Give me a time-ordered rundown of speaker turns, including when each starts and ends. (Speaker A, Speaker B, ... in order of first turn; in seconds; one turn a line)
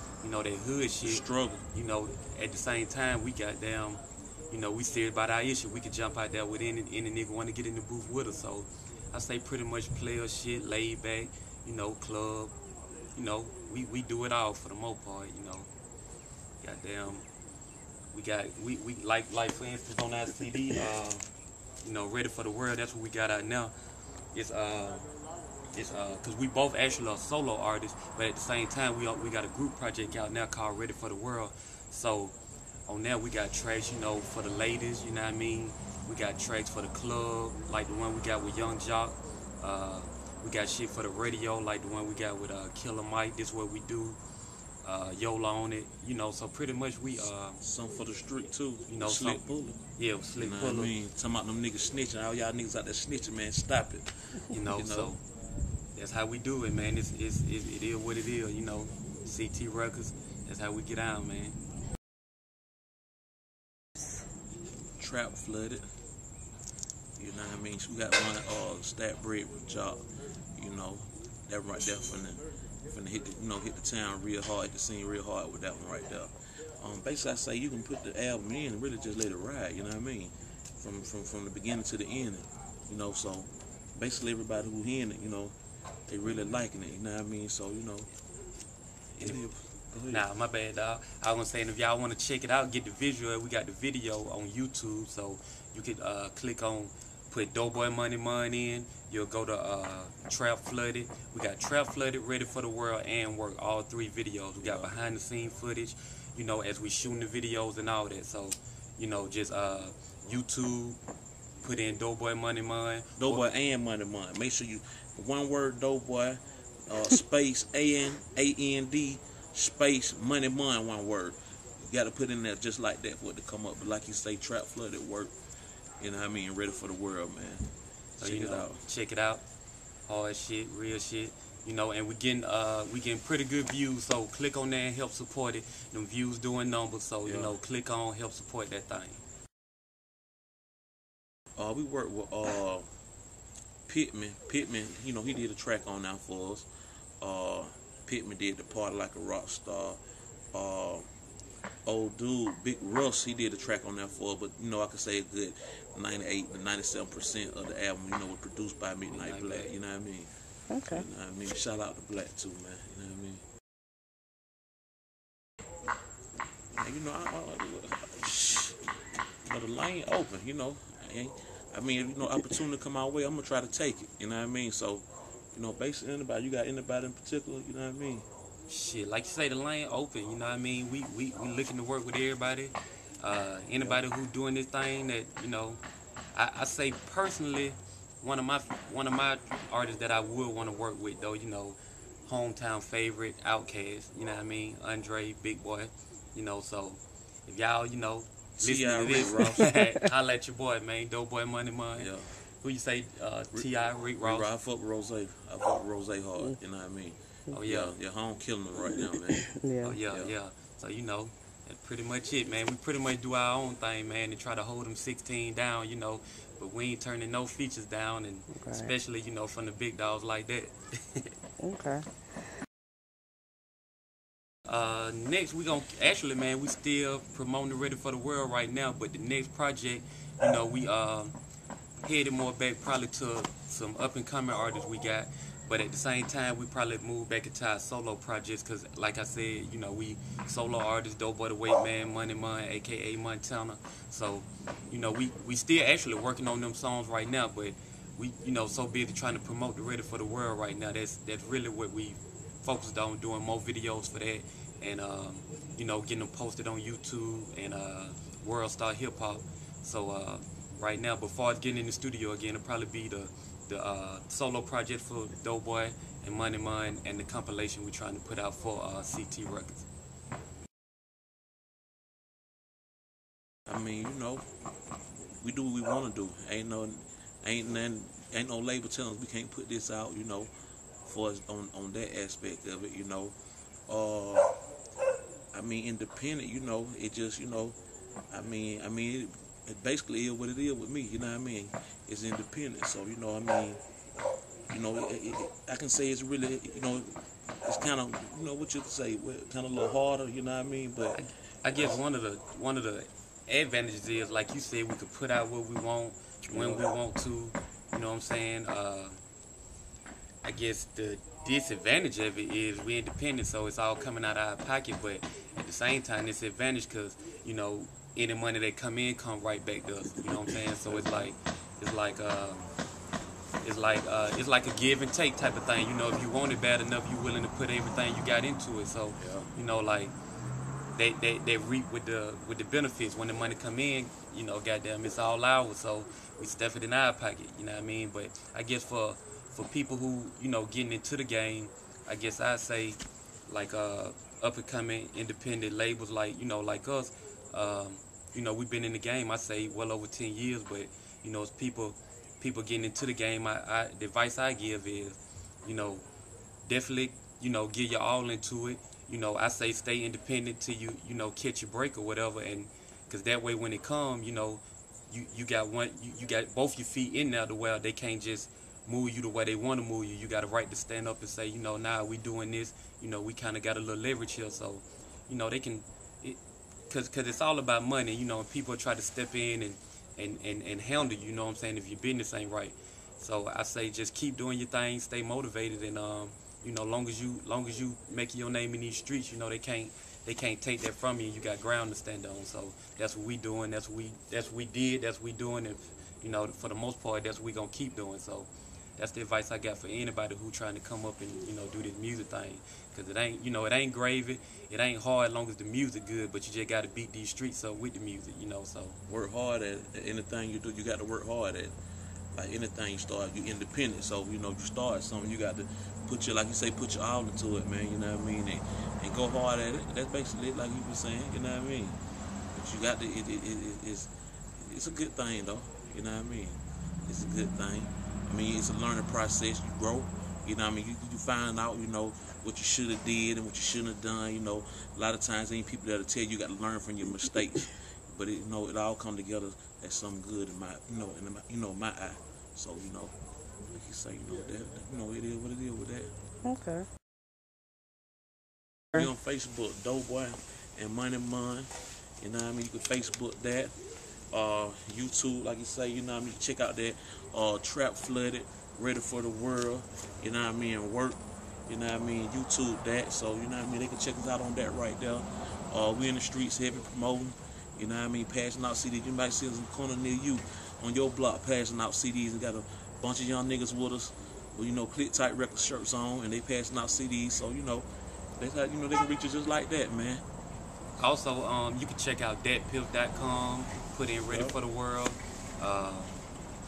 Speaker A: 0.2-12.6
Speaker B: 1.0-1.6
Speaker A: 13.1-15.7
Speaker A: 16.6-17.3
Speaker A: 18.1-21.2
Speaker A: 21.8-23.7
Speaker A: 24.3-25.1
Speaker A: 25.7-32.4
Speaker A: 32.9-44.2
Speaker A: 44.8-47.6
Speaker B: 47.6-49.8
Speaker A: 48.9-49.4
Speaker A: 50.0-51.0
Speaker B: 50.4-55.1
Speaker A: 54.5-55.2
Speaker A: 55.9-61.6
Speaker B: 65.0-65.9
Speaker B: 67.2-85.5
Speaker B: 86.1-88.1
Speaker A: 89.2-89.4
Speaker B: 89.2-90.3
Speaker A: 90.1-111.0
Speaker B: 104.6-105.0
Speaker A: 111.6-113.4
Speaker B: 113.2-125.3
Speaker B: 126.0-127.7
Speaker B: 128.2-128.8
Speaker A: 128.2-129.4
Speaker A: 130.1-139.2
Speaker B: 137.2-137.6
Speaker B: 141.6-142.9
Speaker B: 143.9-146.7
Speaker B: 147.2-150.0
Speaker B: 150.5-151.1
Speaker B: 151.8-160.3
Speaker A: 159.1-159.7
Speaker C: 160.7-161.1
Speaker B: 160.8-163.4
Speaker B: 166.8-168.8
Speaker B: 169.4-178.3
Speaker A: 178.7-185.8
Speaker B: 183.8-184.1
Speaker A: 186.3-204.5
Speaker B: 198.6-199.7
Speaker C: 199.6-200.0
Speaker B: 201.9-202.3
Speaker B: 204.2-209.5
Speaker A: 207.5-207.9
Speaker C: 209.3-210.0
Speaker A: 209.8-221.4
Speaker B: 210.1-210.3
Speaker C: 218.5-218.9
Speaker C: 221.6-222.1
Speaker A: 224.7-231.3
Speaker A: 232.0-269.9
Speaker B: 273.7-274.5
Speaker B: 275.4-280.5
Speaker B: 281.0-283.4
Speaker B: 283.9-284.5
Speaker B: 285.5-287.8
Speaker B: 288.3-293.8
Speaker B: 294.7-302.0
Speaker A: 301.1-309.2
Speaker B: 306.4-306.8
Speaker A: 310.4-322.7
Speaker B: 320.3-321.3
Speaker A: 323.6-330.1
Speaker B: 329.2-329.5
Speaker A: 330.9-356.1
Speaker A: 356.6-409.0
Speaker B: 409.1-411.7
Speaker B: 412.3-421.9
Speaker B: 422.5-443.1
Speaker B: 443.7-446.1
Speaker C: 446.4-446.9
Speaker B: 448.9-453.8
Speaker B: 454.3-480.2
Speaker A: 481.0-486.2
Speaker B: 484.3-484.6